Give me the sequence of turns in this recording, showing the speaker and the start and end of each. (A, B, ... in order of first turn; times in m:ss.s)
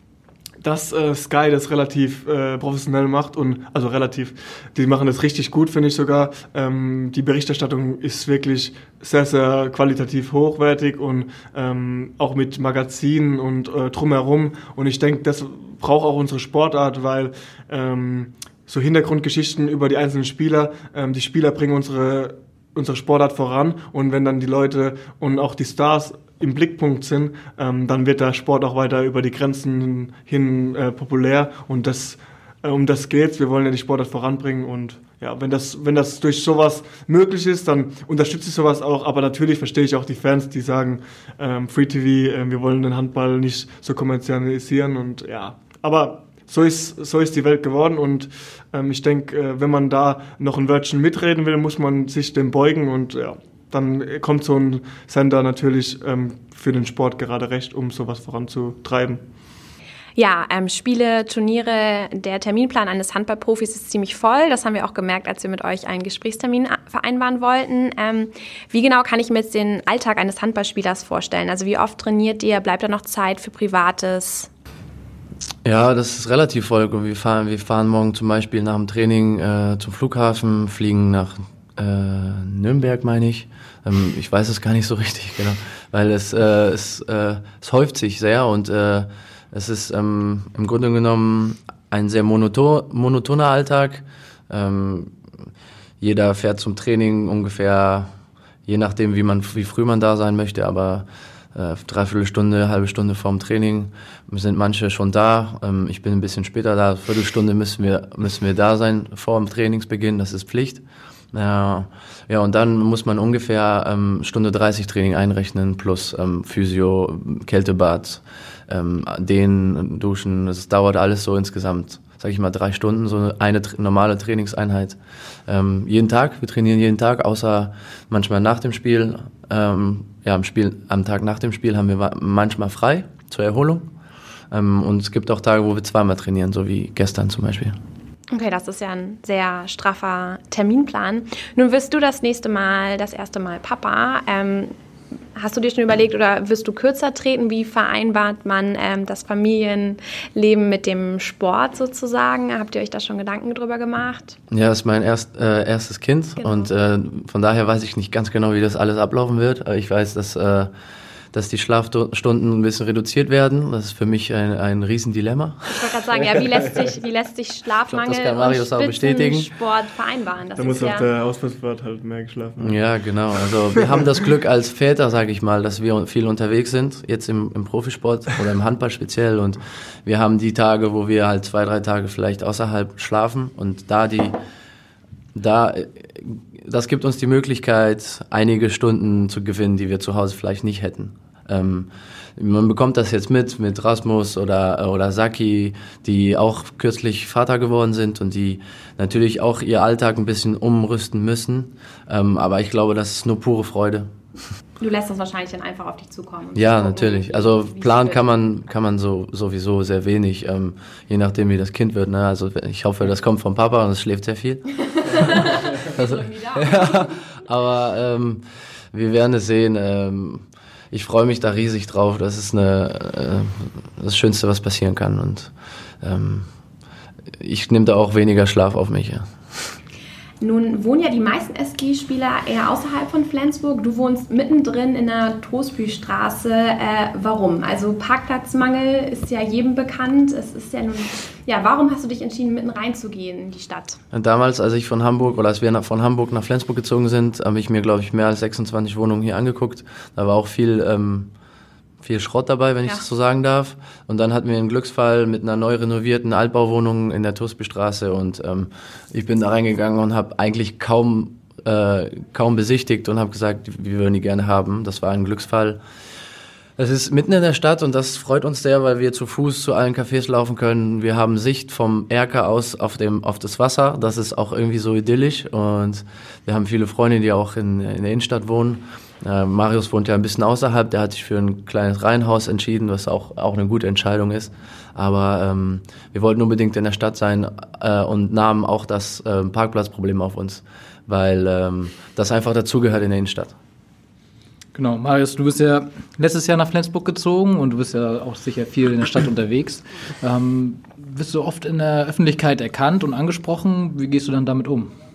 0:00.6-0:59.2 A
1:00.2-1:14.5 B
1:15.6-1:35.1 C
1:36.0-1:38.1 C
1:38.6-1:50.8 C
1:51.3-2:13.9 C
2:14.5-2:17.8 C
2:18.3-2:24.7 B
2:25.3-2:34.4 B
2:34.5-2:40.7 C
2:36.4-2:36.7 B
2:41.3-2:45.9 C
2:45.7-2:51.1 B
2:47.9-2:49.5 C
2:50.6-2:52.8 A
2:52.6-3:04.4 C
3:05.3-3:24.1 C
3:24.8-3:28.3 B
3:26.5-3:46.5 C
3:34.9-3:37.1 B
3:47.4-3:49.3 C
3:50.4-4:04.0 B
4:04.1-4:11.3 C
4:12.0-4:25.8 C
4:26.8-4:53.5 C
4:54.8-5:04.9 D